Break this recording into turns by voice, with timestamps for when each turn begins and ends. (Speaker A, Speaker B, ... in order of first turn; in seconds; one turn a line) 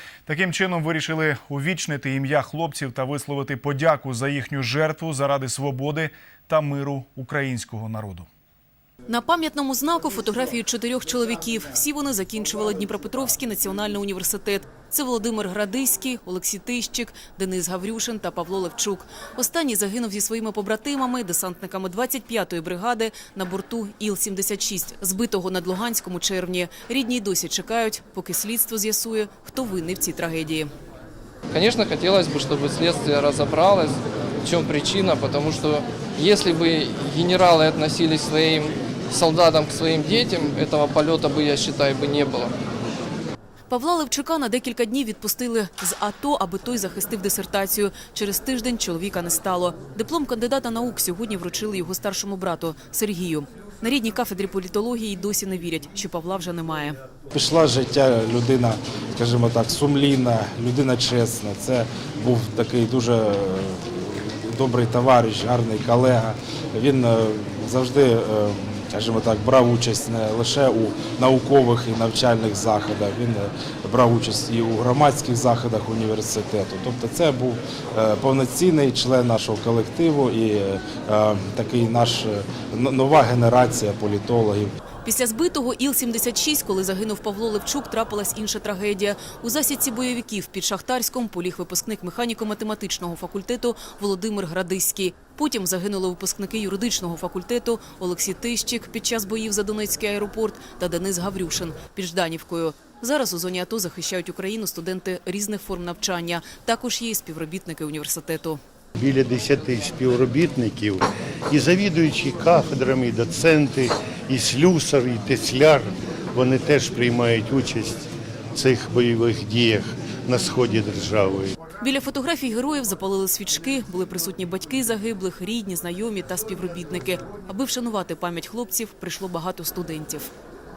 Speaker A: 0.3-8.3
Speaker B: 9.1-30.7
Speaker C: 31.5-42.5
Speaker B: 43.7-57.0
Speaker D: 57.3-84.7
Speaker B: 85.0-108.6
Speaker E: 109.0-121.5
Speaker B: 121.8-130.3